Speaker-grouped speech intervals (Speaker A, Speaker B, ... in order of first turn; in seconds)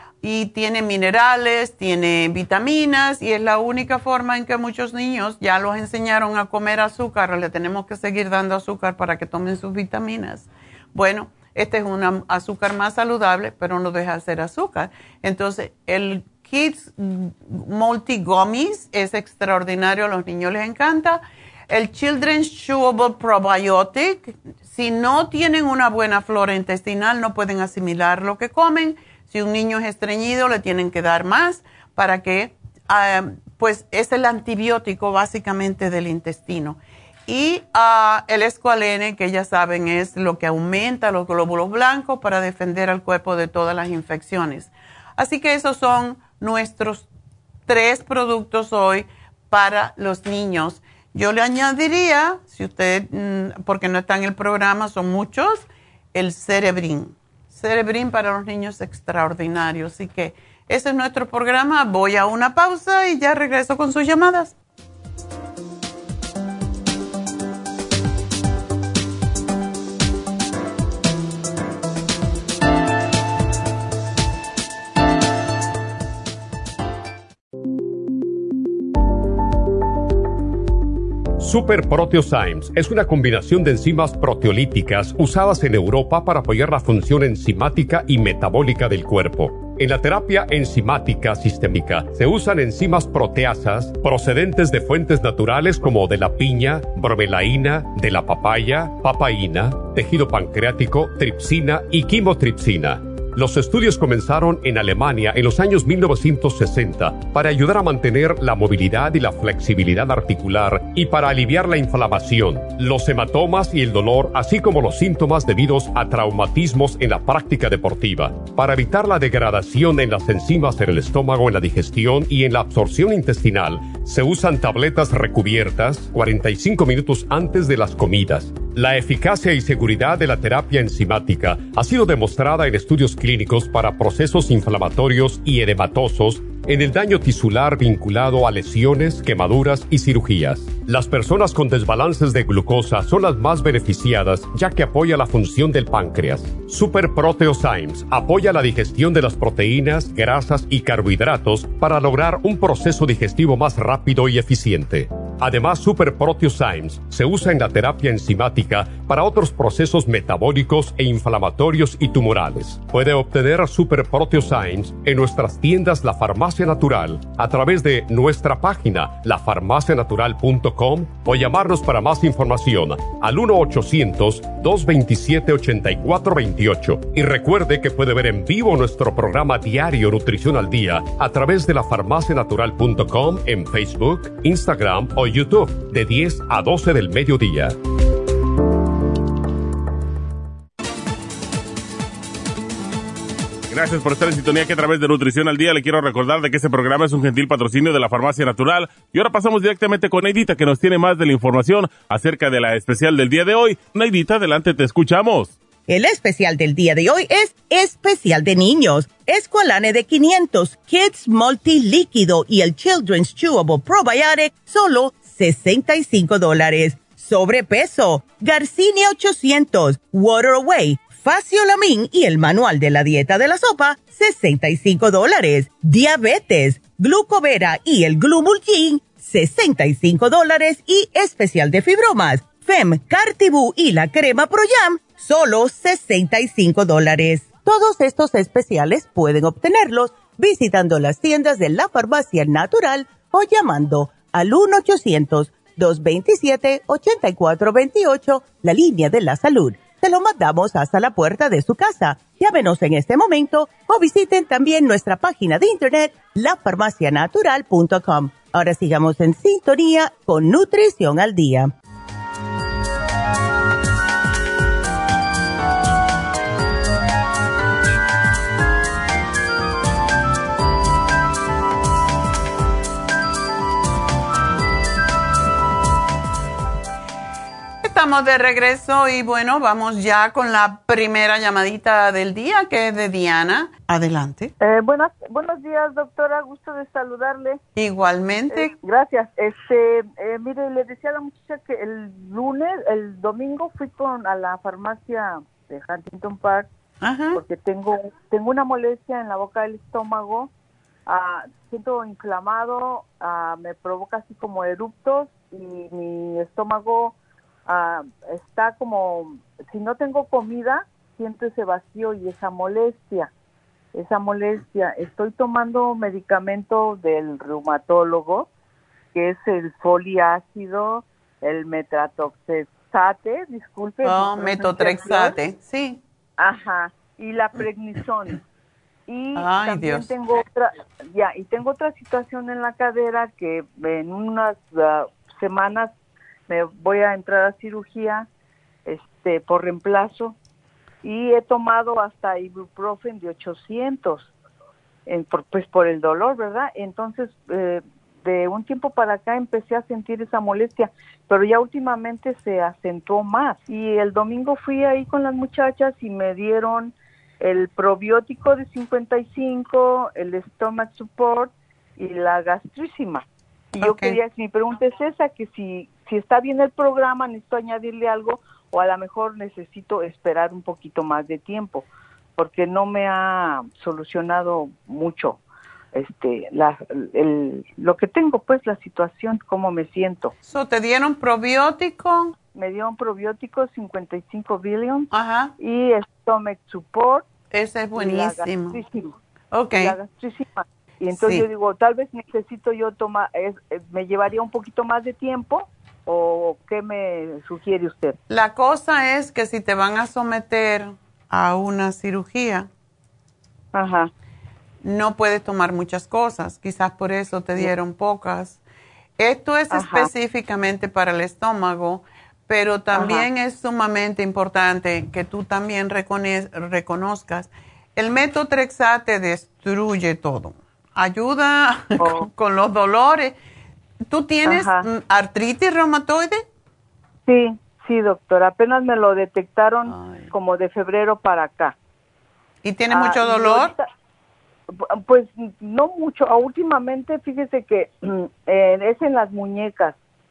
Speaker A: 0.2-47.1, 47.7-64.5, 277.8-284.5, 287.8-288.7, 297.0-297.4, 324.0-326.0, 329.4-330.1, 363.8-364.2, 380.5-382.4, 385.1-385.5, 387.5-388.8, 389.5-389.9, 391.1-391.4, 398.3-402.7, 404.8-408.6, 409.2-423.3, 424.1-426.4, 429.9-430.3, 432.6-433.7
Speaker B: 81.4-187.8
Speaker C: 193.7-205.6
Speaker D: 205.9-261.7
Speaker E: 284.6-287.6, 288.5-296.7, 297.3-300.5, 301.1-307.1, 307.7-313.3, 313.9-318.5, 319.1-325.4, 326.4-328.4, 329.1-335.9, 336.5-338.3, 338.9-340.4, 341.0-344.3, 345.1-375.4, 375.9-380.3, 382.5-387.3, 387.9-389.1, 389.8-398.2, 403.7-404.1, 409.7-410.1, 412.9-413.2, 422.0-422.3, 424.4-424.9, 427.3-431.8, 432.9-433.8, 434.9-440.0